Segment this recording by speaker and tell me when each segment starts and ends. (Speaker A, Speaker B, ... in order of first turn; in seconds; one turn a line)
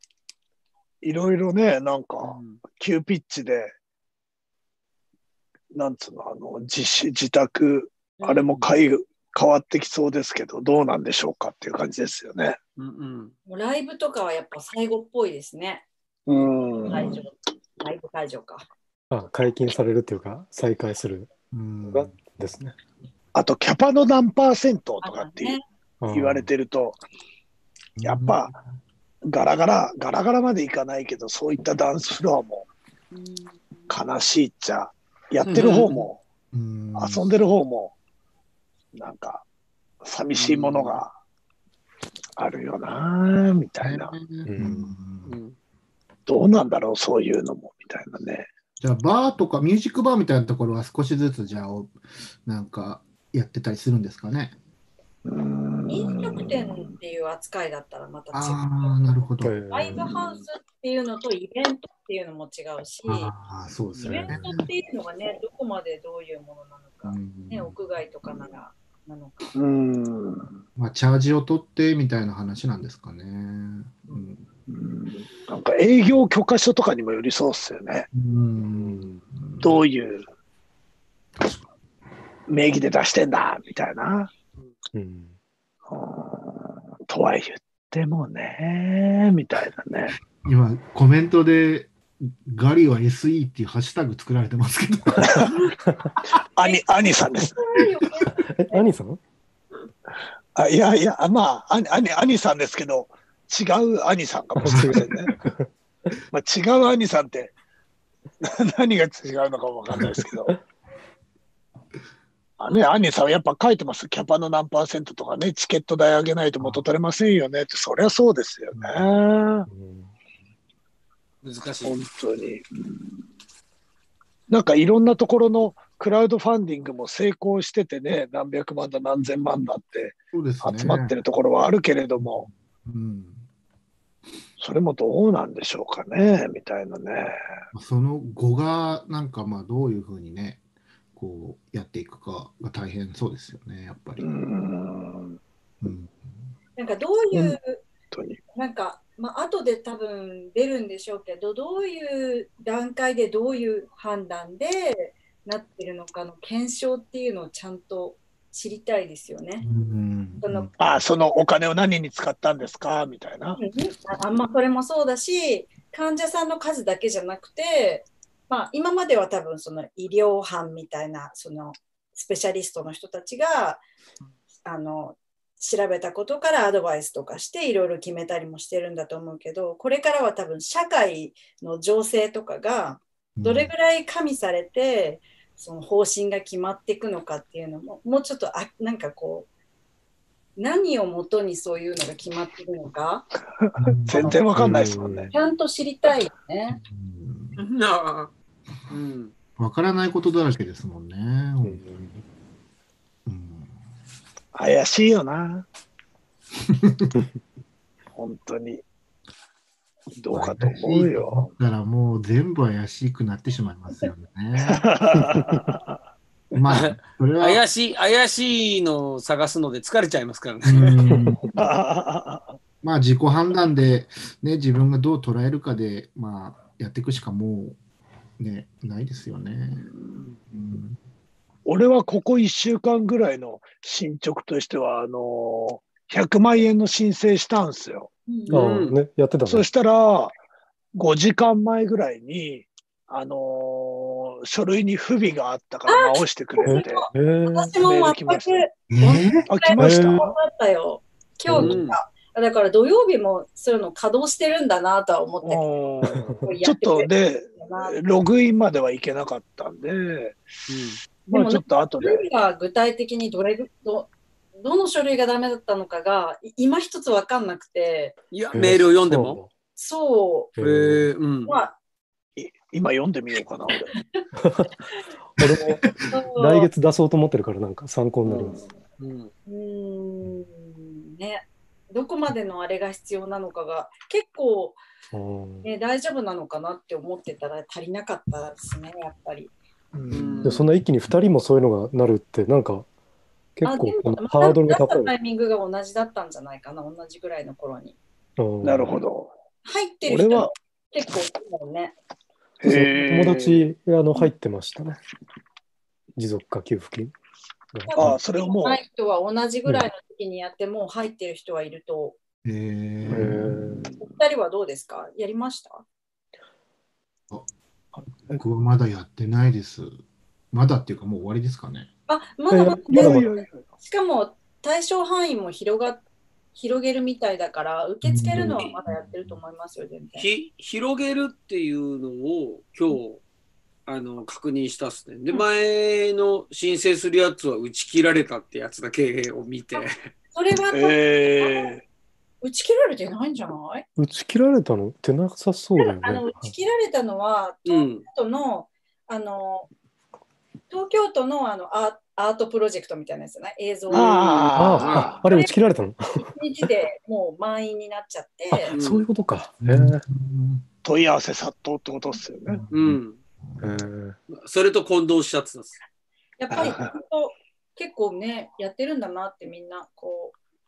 Speaker A: 1.0-3.7
Speaker B: 2.2-2.6
Speaker A: 5.7-12.6
Speaker B: 12.8-13.3
Speaker C: 13.5-15.8
Speaker A: 16.3-17.2
Speaker C: 16.9-18.7
Speaker D: 19.1-21.3
Speaker E: 21.5-22.2
Speaker D: 21.9-22.8
Speaker A: 23.3-25.6
Speaker C: 25.0-25.6
Speaker D: 26.0-26.5
Speaker A: 26.1-27.0
Speaker E: 28.0-28.6
Speaker A: 28.0-28.5
Speaker A: 29.2-32.7
Speaker C: 33.1-33.9
Speaker A: 33.9-36.2
Speaker B: 35.4-36.1
Speaker E: 36.5-37.4
Speaker A: 36.9-37.9
Speaker A: 38.9-39.4
Speaker A: 40.0-41.1
Speaker B: 40.3-41.0
Speaker A: 42.4-44.1
Speaker E: 43.8-45.4
Speaker D: 44.4-44.9
Speaker B: 45.2-45.5
Speaker A: 46.3-48.5
Speaker E: 48.8-54.5
Speaker A: 55.2-56.9
Speaker C: 55.9-59.0
Speaker E: 58.3-60.0
Speaker D: 59.4-60.1
Speaker C: 59.7-63.3
Speaker E: 63.0-64.7
Speaker C: 64.0-69.5
Speaker E: 67.0-67.7
Speaker A: 69.5-70.6
Speaker E: 70.8-74.4
Speaker A: 74.7-78.1
Speaker E: 78.1-79.8
Speaker D: 78.6-79.2
Speaker A: 79.6-80.2
Speaker A: 82.5-84.3
Speaker D: 84.9-85.3
Speaker A: 85.9-90.2
Speaker E: 90.4-95.5
Speaker A: 95.2-95.7
Speaker A: 96.3-97.6
Speaker C: 96.6-98.9
Speaker D: 98.4-99.2
Speaker A: 100.5-105.3
Speaker D: 104.6-105.7
Speaker E: 104.7-105.0
Speaker A: 106.3-107.5
Speaker A: 108.4-110.5
Speaker A: 112.6-119.7
Speaker D: 119.7-120.1
Speaker B: 121.4-122.0
Speaker A: 121.8-123.1
Speaker A: 124.5-132.5
Speaker E: 130.3-131.1
Speaker E: 132.2-133.4
Speaker A: 134.6-137.3
Speaker E: 137.7-140.6
Speaker E: 141.2-144.2
Speaker A: 144.2-145.4
Speaker E: 145.8-146.5
Speaker C: 146.8-147.8
Speaker A: 148.1-148.4
Speaker C: 148.5-159.7
Speaker E: 159.6-161.0
Speaker C: 160.4-160.7
Speaker A: 160.8-163.6
Speaker C: 163.6-173.8
Speaker C: 174.6-189.5
Speaker E: 183.3-183.7
Speaker C: 190.6-193.3
Speaker A: 193.7-195.3
Speaker E: 193.8-194.4
Speaker D: 194.5-195.3
Speaker C: 195.3-196.8
Speaker E: 196.7-197.6
Speaker B: 197.6-198.3
Speaker B: 198.9-199.3
Speaker E: 199.6-202.1
Speaker D: 201.6-202.2
Speaker E: 203.2-203.7
Speaker A: 204.5-205.7
Speaker E: 206.7-207.2
Speaker A: 208.2-208.8
Speaker A: 210.2-211.5
Speaker E: 210.3-214.9
Speaker A: 214.7-216.0
Speaker E: 216.5-217.6
Speaker B: 216.7-221.0
Speaker E: 220.6-221.4
Speaker A: 221.5-222.6
Speaker E: 222.8-227.8
Speaker E: 228.4-229.9
Speaker A: 229.8-230.4
Speaker E: 230.5-231.0
Speaker A: 231.7-238.1
Speaker C: 238.3-238.6
Speaker D: 238.5-239.7
Speaker B: 238.5-238.9
Speaker A: 239.5-240.3
Speaker A: 240.9-247.1
Speaker C: 245.9-255.7
Speaker D: 246.6-247.8
Speaker A: 247.8-248.7
Speaker E: 248.9-249.4
Speaker A: 249.5-250.2
Speaker D: 249.8-250.3
Speaker D: 251.5-251.8
Speaker B: 251.5-252.0
Speaker A: 255.4-260.4
Speaker D: 256.0-256.5
Speaker C: 256.4-258.0
Speaker B: 260.7-261.0
Speaker A: 261.3-262.3
Speaker C: 261.3-268.1
Speaker B: 268.3-269.4
Speaker D: 268.5-269.5
Speaker C: 269.8-270.5
Speaker D: 270.6-271.1
Speaker B: 270.6-271.6
Speaker C: 271.4-271.7
Speaker A: 272.4-273.9
Speaker C: 274.0-274.2
Speaker D: 274.3-278.6
Speaker C: 276.1-276.7
Speaker A: 278.2-278.7
Speaker B: 279.0-279.3
Speaker C: 279.5-284.8
Speaker D: 285.1-285.7
Speaker C: 285.6-289.5
Speaker A: 289.9-290.6
Speaker B: 290.1-290.6
Speaker D: 290.4-292.9
Speaker D: 293.6-295.1
Speaker C: 293.6-297.9
Speaker D: 298.4-298.9
Speaker A: 298.6-299.3
Speaker C: 299.6-301.9
Speaker A: 300.1-300.5
Speaker A: 302.6-303.6
Speaker D: 302.6-305.0
Speaker D: 306.1-307.1
Speaker D: 307.7-308.1
Speaker C: 307.9-312.2
Speaker A: 307.9-308.8
Speaker E: 312.4-313.6
Speaker D: 313.1-313.9
Speaker C: 314.0-315.8
Speaker E: 318.3-319.9
Speaker E: 320.5-321.9
Speaker C: 322.1-326.0
Speaker D: 322.5-323.3
Speaker A: 322.9-323.6
Speaker C: 326.5-330.3
Speaker E: 328.0-329.4
Speaker B: 330.2-333.2
Speaker B: 333.9-340.1
Speaker C: 339.7-341.7
Speaker A: 340.7-341.8
Speaker C: 342.4-343.9
Speaker D: 344.0-346.5
Speaker C: 345.8-349.7
Speaker B: 347.6-348.0
Speaker C: 350.7-354.6
Speaker B: 353.9-355.1
Speaker A: 353.9-355.2
Speaker D: 354.6-356.3
Speaker C: 355.2-355.6
Speaker C: 356.2-358.8
Speaker D: 358.5-360.0
Speaker B: 358.7-359.1
Speaker E: 359.6-360.6
Speaker A: 360.8-362.6
Speaker E: 362.5-363.8
Speaker B: 362.7-363.2
Speaker D: 363.6-364.2
Speaker B: 364.3-365.8
Speaker C: 366.4-370.4
Speaker A: 366.5-367.0